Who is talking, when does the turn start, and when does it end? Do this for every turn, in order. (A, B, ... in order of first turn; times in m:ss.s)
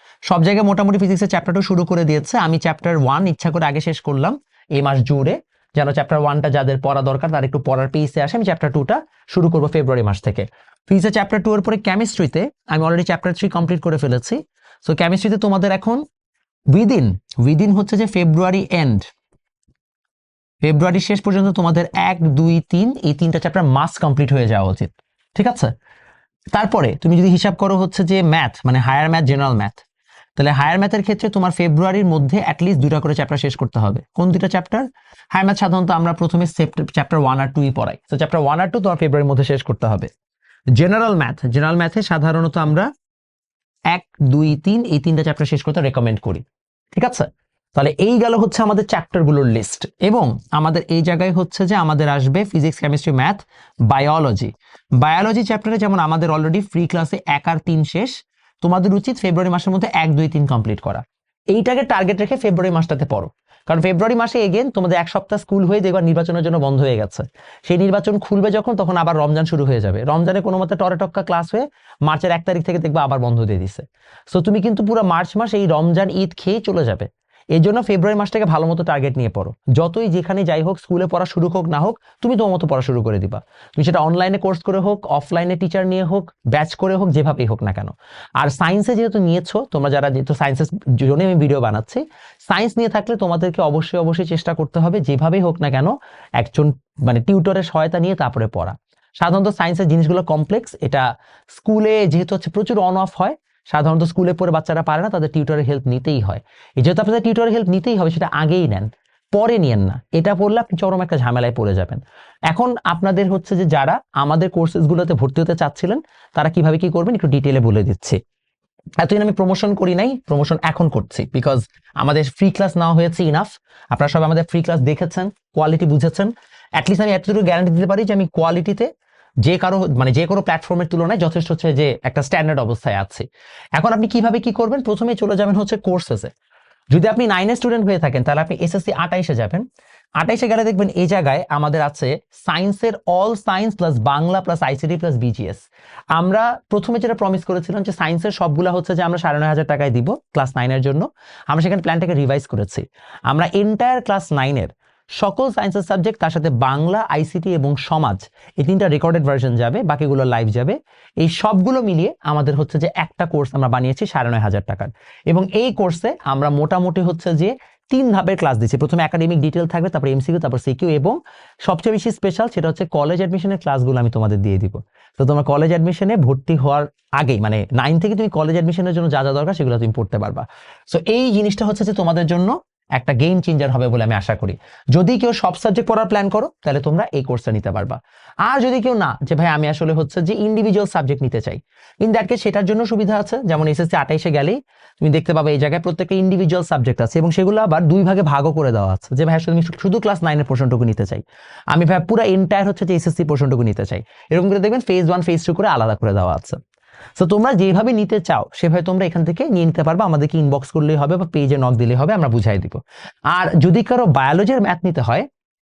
0:00.3-0:16.0 A
0:16.7-0:19.1 A
0:20.6-0:25.7 A
0:26.5-0:29.8 A
0:30.4-0:40.1 A
0:40.8-0:42.9 A
0:43.9-1:58.2 A
1:59.0-2:08.9 A
2:09.4-2:13.3 A
2:13.8-2:16.3 A
2:16.9-2:19.6 A
2:20.2-3:26.6 A
3:27.2-3:35.3 A